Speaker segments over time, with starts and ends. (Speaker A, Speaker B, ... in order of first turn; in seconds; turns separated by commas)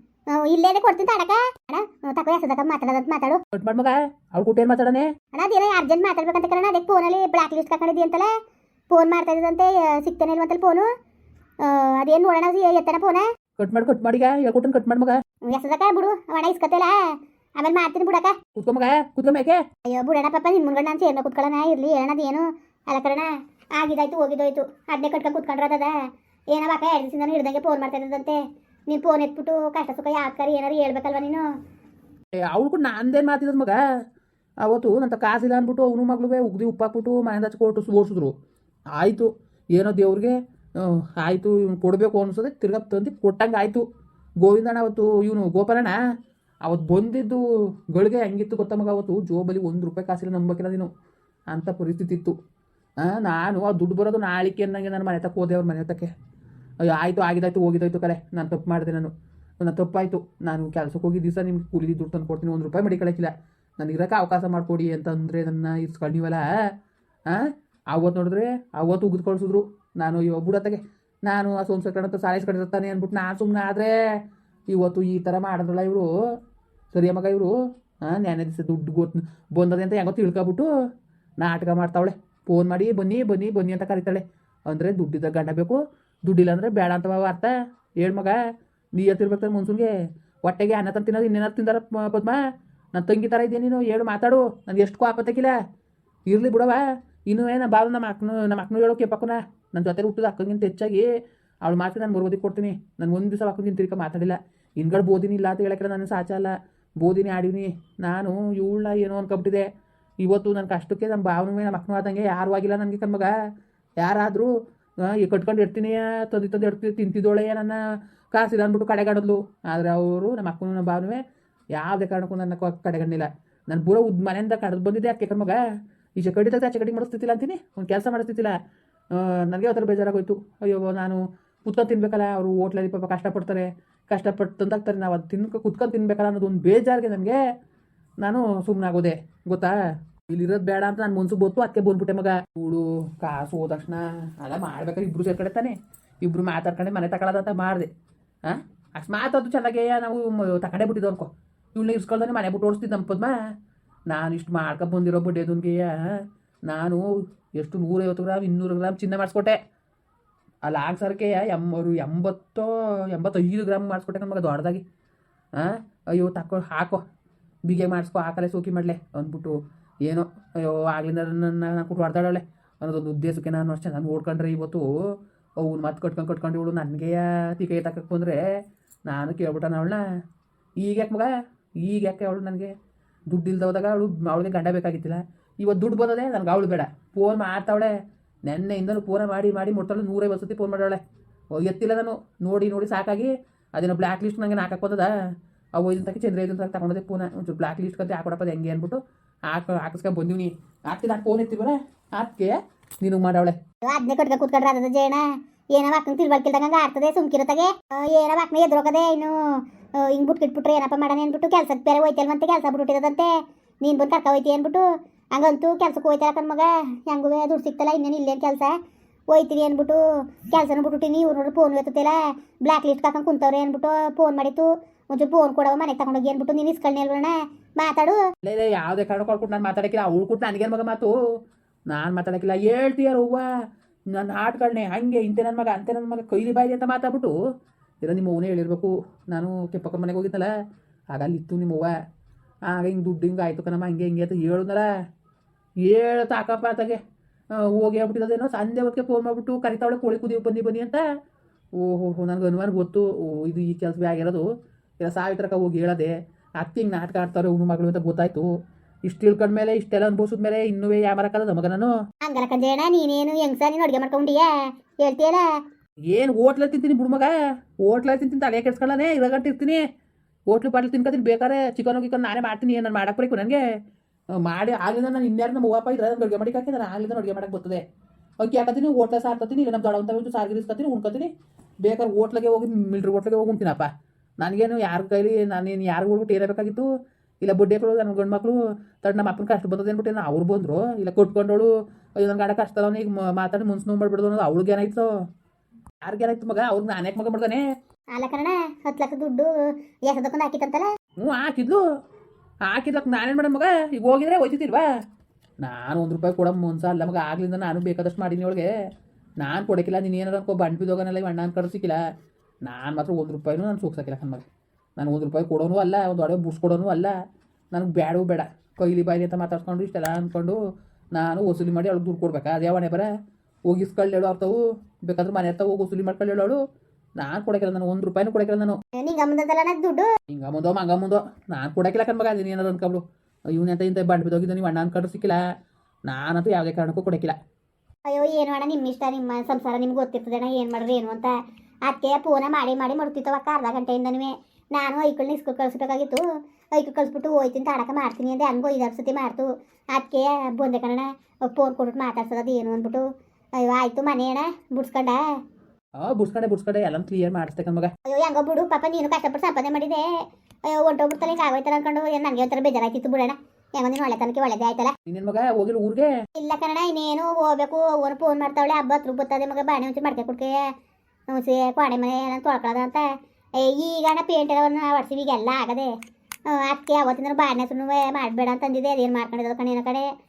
Speaker A: 0.3-3.4, Speaker B: 3.5-5.1, Speaker A: 5.3-8.3, Speaker A: 8.9-10.9, Speaker A: 11.6-13.2, Speaker B: 13.6-15.2, Speaker A: 15.5-16.9, Speaker A: 17.6-18.4, Speaker B: 18.6-19.6, Speaker A: 19.9-25.9, Speaker A: 26.5-28.4, Speaker A: 28.9-31.5, Speaker B: 32.5-33.8, Speaker B: 34.6-38.3, Speaker B: 39.0-43.8, Speaker B: 44.4-46.0, Speaker B: 46.6-50.9, Speaker B: 51.5-52.4, Speaker B: 53.0-56.1, Speaker B: 56.8-66.5, Speaker B: 67.3-73.9, Speaker B: 74.7-76.1, Speaker B: 76.9-80.7, Speaker B: 81.4-88.4, Speaker B: 88.9-89.9, Speaker B: 90.4-92.4, Speaker B: 92.9-95.5, Speaker B: 96.3-101.1, Speaker B: 101.6-109.7, Speaker B: 110.2-113.3, Speaker B: 114.0-117.8, Speaker B: 118.3-121.2, Speaker B: 121.7-125.6, Speaker B: 126.2-128.5, Speaker B: 129.1-137.4, Speaker B: 138.2-139.8, Speaker B: 140.3-147.9, Speaker B: 148.4-153.3, Speaker B: 154.1-156.1, Speaker B: 156.7-157.0, Speaker B: 157.6-159.6, Speaker B: 160.7-164.8, Speaker B: 165.5-167.0, Speaker B: 167.7-174.9, Speaker B: 175.6-178.4, Speaker B: 179.1-180.0, Speaker B: 180.8-181.3, Speaker B: 181.8-182.7, Speaker B: 183.3-187.9, Speaker B: 188.4-191.0, Speaker B: 191.5-195.1, Speaker B: 195.7-203.6, Speaker A: 203.8-213.3, Speaker A: 213.8-218.8, Speaker A: 219.3-228.2, Speaker B: 228.4-231.2, Speaker B: 231.9-233.4, Speaker B: 234.1-237.3, Speaker B: 238.0-240.5, Speaker B: 241.1-241.9, Speaker B: 242.7-244.8, Speaker B: 245.8-247.0, Speaker B: 247.5-251.0, Speaker B: 251.8-254.5, Speaker B: 255.0-258.5, Speaker B: 259.1-261.9, Speaker A: 262.2-265.4, Speaker B: 266.1-267.3, Speaker B: 267.8-269.8, Speaker B: 270.5-273.6, Speaker B: 274.3-277.8, Speaker B: 278.4-281.3, Speaker B: 281.8-283.9, Speaker B: 284.4-286.9, Speaker B: 287.4-295.1, Speaker B: 296.0-297.6, Speaker A: 298.1-299.5, Speaker A: 300.1-300.9, Speaker B: 301.2-301.8, Speaker B: 302.6-304.9, Speaker B: 305.6-308.7, Speaker B: 309.4-312.0, Speaker B: 312.6-314.4, Speaker B: 315.0-317.1, Speaker B: 317.7-320.6, Speaker B: 321.1-323.1, Speaker B: 323.6-326.6, Speaker B: 327.2-328.8, Speaker A: 329.0-330.1, Speaker B: 330.3-335.4, Speaker B: 336.1-337.4, Speaker A: 338.1-341.3, Speaker A: 341.9-346.2, Speaker A: 346.7-353.0, Speaker A: 353.6-355.2, Speaker B: 356.0-357.9, Speaker A: 358.1-360.1, Speaker A: 360.7-364.9, Speaker B: 365.1-366.1, Speaker A: 366.4-370.6, Speaker A: 371.3-373.0, Speaker A: 373.6-375.9, Speaker A: 376.5-380.1